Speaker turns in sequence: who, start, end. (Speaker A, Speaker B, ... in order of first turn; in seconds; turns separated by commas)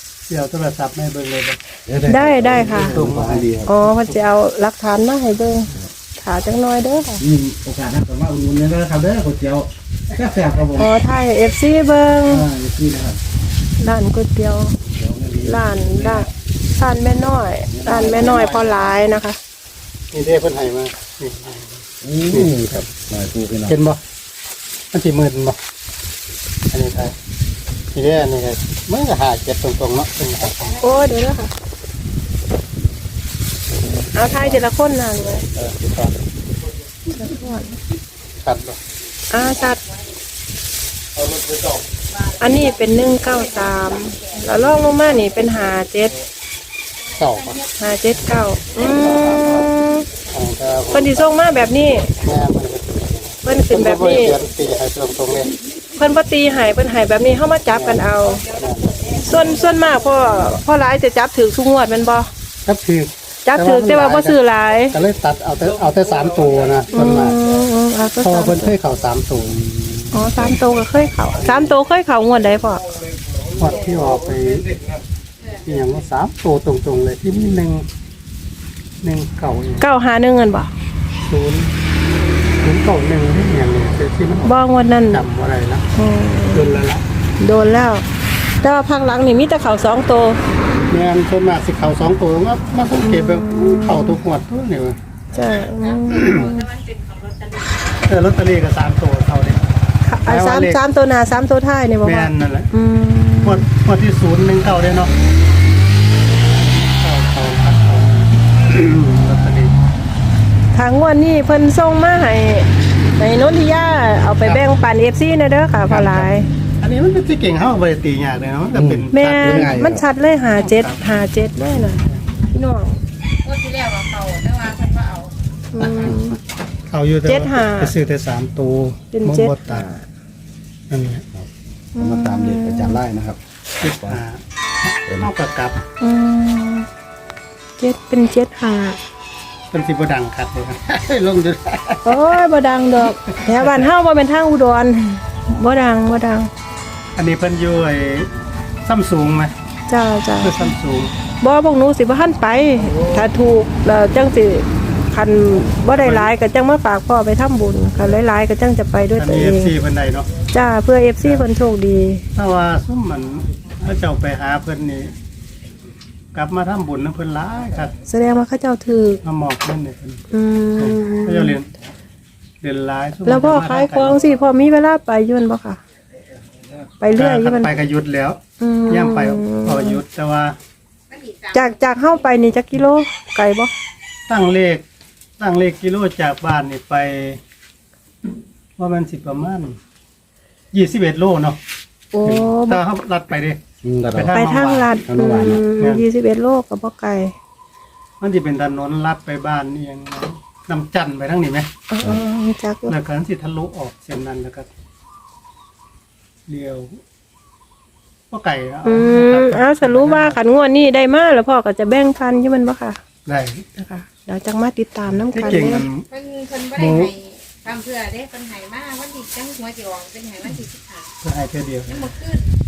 Speaker A: 0.3-1.6, Speaker B: 1.9-3.8, Speaker C: 2.1-3.0, Speaker A: 2.4-4.2, Speaker C: 3.7-7.2, Speaker B: 7.2-10.9, Speaker C: 10.7-12.5, Speaker B: 12.2-13.2, Speaker C: 13.8-14.8, Speaker B: 14.8-16.3, Speaker C: 15.4-19.4, Speaker B: 17.7-18.8, Speaker A: 20.1-22.8, Speaker B: 22.0-23.7, Speaker A: 23.7-24.0, Speaker A: 24.9-25.6, Speaker A: 26.7-27.1, Speaker A: 27.9-30.8, Speaker C: 30.8-31.5, Speaker C: 34.1-35.5, Speaker A: 35.6-36.0, Speaker B: 35.7-36.0, Speaker C: 37.1-37.7, Speaker A: 38.4-38.8, Speaker C: 39.3-39.8, Speaker C: 42.4-46.1, Speaker D: 43.3-44.4, Speaker A: 47.2-47.6, Speaker D: 47.3-47.8, Speaker C: 47.8-50.1, Speaker A: 48.8-49.7, Speaker A: 50.3-51.6, Speaker C: 50.9-52.1, Speaker A: 52.1-55.5, Speaker C: 53.5-54.4, Speaker C: 56.0-58.4, Speaker A: 57.7-58.0, Speaker D: 58.3-60.0, Speaker A: 58.5-58.9, Speaker C: 59.2-62.3, Speaker A: 62.6-64.4, Speaker C: 63.5-65.0, Speaker A: 64.9-67.4, Speaker C: 66.9-68.8, Speaker A: 68.2-69.6, Speaker B: 69.5-70.6, Speaker C: 70.1-72.9, Speaker A: 73.5-74.8, Speaker A: 75.7-77.9, Speaker A: 79.0-79.9, Speaker C: 79.8-80.7, Speaker A: 81.3-81.7, Speaker A: 82.6-84.6, Speaker C: 84.4-85.2, Speaker A: 85.1-85.9, Speaker C: 86.0-86.8, Speaker A: 86.5-87.0, Speaker C: 87.4-88.0, Speaker C: 88.6-90.4, Speaker A: 90.9-95.0, Speaker C: 93.0-94.2, Speaker C: 95.3-96.6, Speaker D: 95.9-97.8, Speaker A: 96.1-96.6, Speaker A: 98.0-99.6, Speaker C: 100.0-103.7, Speaker A: 100.2-100.8, Speaker A: 102.0-102.7, Speaker A: 103.4-105.1, Speaker A: 106.8-109.8, Speaker C: 110.7-116.5, Speaker A: 115.9-119.9, Speaker B: 118.8-120.0, Speaker C: 119.1-123.0, Speaker A: 120.5-121.0, Speaker D: 123.4-125.8, Speaker C: 125.7-126.4, Speaker A: 125.8-126.2, Speaker A: 126.9-129.9, Speaker C: 127.3-127.9, Speaker C: 129.1-130.0, Speaker A: 130.9-131.3, Speaker B: 131.3-134.2, Speaker C: 131.9-133.0, Speaker A: 133.8-135.8, Speaker C: 136.0-136.9, Speaker C: 137.8-139.0, Speaker A: 139.7-142.4, Speaker C: 142.1-146.5, Speaker A: 143.5-143.9, Speaker A: 147.2-148.3, Speaker A: 148.8-149.5, Speaker C: 149.9-150.7, Speaker A: 150.4-151.2, Speaker C: 151.4-159.7, Speaker A: 155.9-156.3, Speaker A: 159.2-160.3, Speaker C: 160.5-162.2, Speaker A: 162.3-165.1, Speaker A: 166.3-167.9, Speaker C: 168.1-169.2, Speaker A: 169.2-170.2, Speaker C: 170.3-171.6, Speaker A: 170.8-171.7, Speaker A: 172.6-174.2, Speaker C: 173.2-175.8, Speaker C: 177.0-177.7, Speaker A: 177.1-180.6, Speaker C: 178.6-180.0, Speaker D: 181.1-181.8, Speaker C: 181.5-183.7, Speaker A: 184.3-184.8, Speaker A: 185.4-187.4, Speaker A: 188.8-189.8, Speaker A: 190.7-191.6, Speaker C: 192.1-192.8, Speaker A: 192.2-193.6, Speaker B: 193.8-194.4, Speaker A: 194.1-194.9, Speaker C: 194.3-197.3, Speaker B: 195.1-195.6, Speaker A: 195.8-196.1, Speaker A: 198.2-201.7, Speaker C: 201.9-202.9, Speaker A: 202.9-204.7, Speaker A: 206.5-207.0, Speaker A: 208.3-210.4, Speaker C: 208.8-213.0, Speaker A: 213.3-213.7, Speaker C: 213.8-215.9, Speaker A: 215.3-216.1, Speaker D: 216.1-221.1, Speaker A: 216.8-217.1, Speaker A: 221.2-222.1, Speaker D: 221.9-222.5